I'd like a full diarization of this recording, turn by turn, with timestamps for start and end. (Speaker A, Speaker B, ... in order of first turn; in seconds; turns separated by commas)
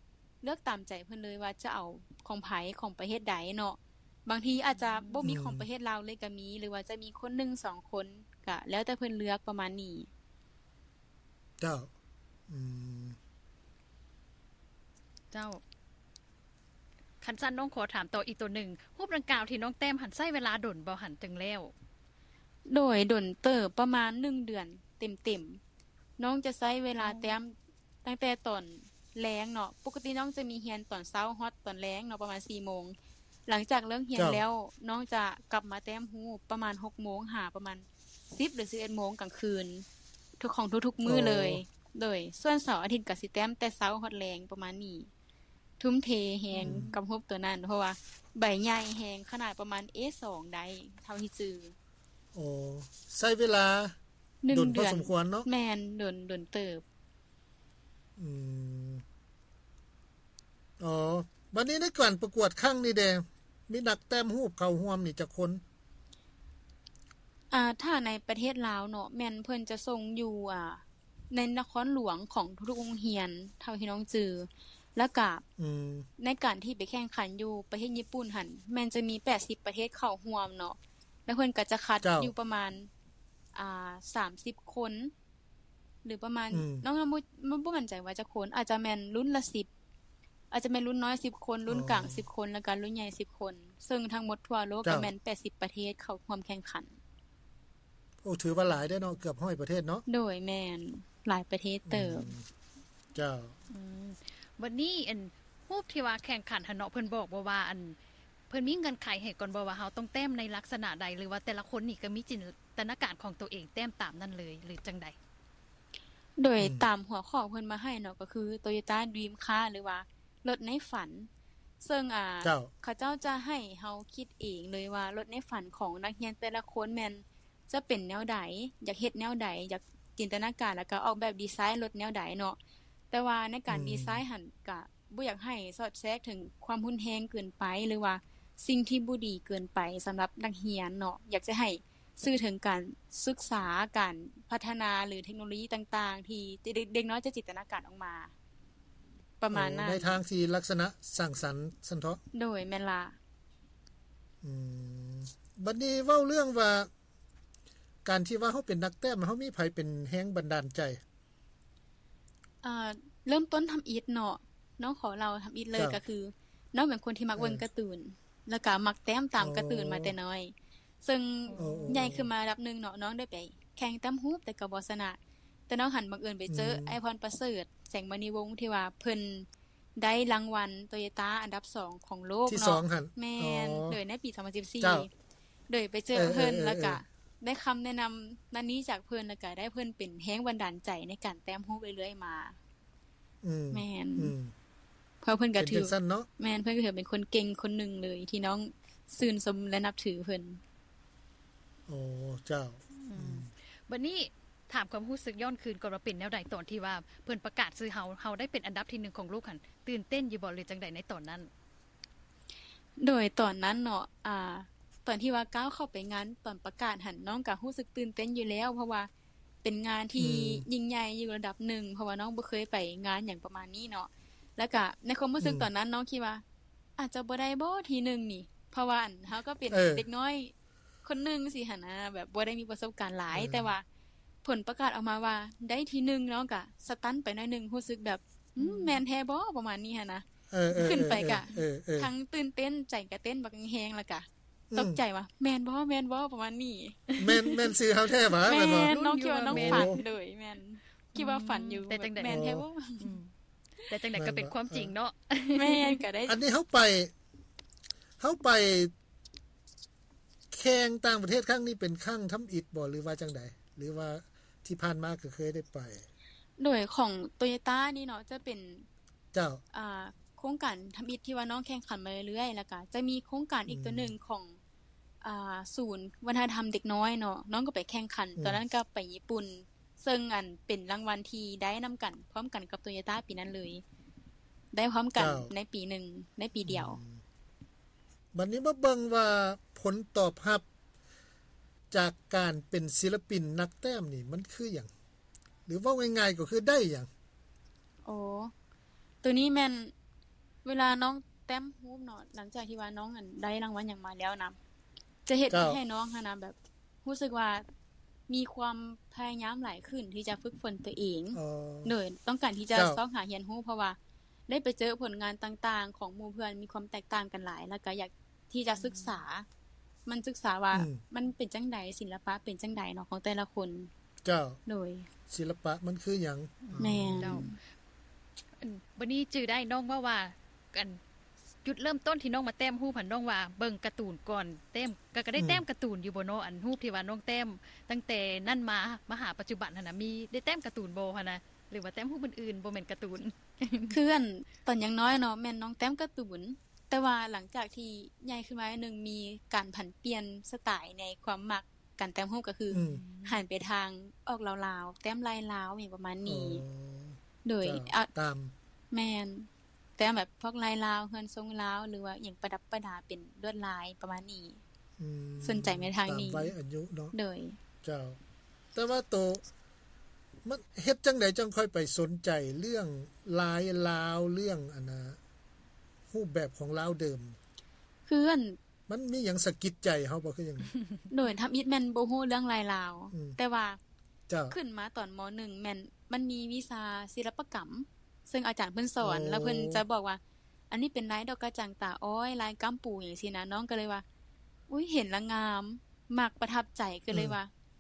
Speaker A: 0.4-10.1, Speaker B: 4.8-5.2, Speaker C: 5.2-5.6, Speaker C: 11.6-11.9, Speaker C: 12.5-13.2, Speaker B: 15.3-15.6, Speaker B: 17.2-21.7, Speaker A: 22.7-25.6, Speaker A: 26.2-32.9, Speaker B: 27.0-27.3, Speaker A: 33.5-39.8, Speaker C: 34.1-34.4, Speaker A: 40.4-45.1, Speaker C: 41.0-41.6, Speaker A: 45.8-51.7, Speaker B: 46.5-46.9, Speaker C: 46.6-46.9, Speaker C: 52.3-54.0, Speaker A: 54.4-56.8, Speaker C: 54.5-55.5, Speaker C: 58.2-59.0, Speaker C: 60.8-65.6, Speaker A: 67.5-75.4, Speaker C: 75.6-76.0, Speaker A: 76.2-82.9, Speaker C: 82.0-82.3, Speaker A: 83.5-85.1, Speaker A: 86.0-89.7, Speaker C: 86.5-86.8, Speaker A: 90.5-96.9, Speaker C: 91.7-92.2, Speaker C: 94.8-95.1, Speaker C: 98.2-100.0, Speaker A: 100.1-102.3, Speaker C: 101.9-102.5, Speaker C: 103.1-103.5, Speaker B: 103.7-108.0, Speaker B: 108.5-115.1, Speaker A: 116.4-121.3, Speaker C: 116.6-116.9, Speaker A: 121.8-132.6, Speaker C: 122.4-122.7, Speaker A: 133.1-148.3, Speaker C: 133.7-134.2, Speaker A: 149.4-150.2, Speaker C: 149.5-152.2, Speaker A: 152.3-153.2, Speaker C: 154.4-156.9, Speaker C: 158.0-161.0, Speaker A: 162.6-170.5, Speaker C: 167.3-167.6, Speaker C: 169.4-170.1, Speaker A: 171.0-175.2, Speaker B: 171.5-172.1, Speaker C: 171.6-172.3, Speaker A: 175.7-185.1, Speaker C: 176.5-177.0, Speaker C: 182.5-184.0, Speaker C: 184.8-185.1, Speaker A: 185.7-192.6, Speaker C: 186.1-187.0, Speaker C: 193.4-194.5, Speaker A: 193.7-194.3, Speaker A: 195.2-200.6, Speaker C: 195.6-196.3, Speaker C: 201.9-203.5, Speaker B: 202.9-211.5, Speaker A: 213.0-219.1, Speaker A: 219.6-226.4, Speaker C: 220.2-220.6, Speaker C: 225.4-225.7, Speaker A: 227.0-230.5, Speaker C: 229.7-230.0, Speaker A: 231.0-233.8, Speaker C: 233.3-233.7, Speaker A: 234.4-247.7, Speaker B: 238.6-239.0, Speaker C: 240.5-242.1, Speaker C: 244.7-245.0, Speaker C: 247.2-248.9, Speaker A: 248.3-253.1, Speaker B: 248.6-250.0, Speaker C: 249.5-249.9, Speaker B: 251.1-252.4, Speaker C: 252.2-252.6, Speaker B: 253.0-253.3, Speaker B: 253.9-256.0, Speaker C: 254.2-254.9, Speaker A: 255.5-256.4, Speaker C: 256.2-257.1, Speaker C: 258.2-258.9, Speaker C: 260.5-266.1, Speaker A: 266.6-268.9, Speaker C: 269.3-269.6, Speaker A: 269.7-274.6, Speaker C: 273.7-274.1, Speaker A: 275.2-283.8, Speaker C: 278.4-278.6, Speaker A: 284.7-287.0, Speaker C: 285.2-285.5, Speaker C: 286.7-287.2, Speaker C: 288.3-290.6, Speaker C: 291.9-294.9, Speaker C: 295.7-297.1, Speaker A: 298.0-298.5, Speaker A: 299.2-299.9, Speaker A: 300.6-304.6, Speaker A: 305.2-307.6, Speaker C: 305.5-305.8, Speaker A: 308.3-314.0, Speaker C: 311.3-311.9, Speaker A: 314.5-319.4, Speaker B: 318.8-319.2, Speaker A: 320.1-323.9, Speaker C: 320.7-321.0, Speaker C: 324.2-324.6, Speaker A: 324.7-325.1, Speaker C: 325.3-327.5, Speaker B: 326.6-327.5, Speaker A: 326.8-327.6, Speaker B: 328.6-331.0, Speaker B: 331.6-344.0, Speaker C: 335.3-335.6, Speaker A: 343.9-356.6, Speaker C: 352.7-353.0, Speaker B: 352.8-353.4, Speaker C: 356.2-358.5, Speaker A: 357.4-358.1, Speaker A: 358.9-364.6, Speaker C: 365.0-367.1, Speaker A: 365.4-366.5, Speaker A: 367.1-367.6, Speaker C: 367.8-368.2, Speaker C: 368.7-369.4, Speaker C: 370.4-375.2, Speaker C: 376.1-377.4, Speaker A: 378.1-378.6, Speaker C: 378.9-380.7, Speaker A: 381.1-383.8, Speaker C: 384.3-384.6, Speaker A: 384.5-390.2, Speaker C: 389.0-389.8, Speaker A: 390.7-394.0, Speaker A: 394.7-397.5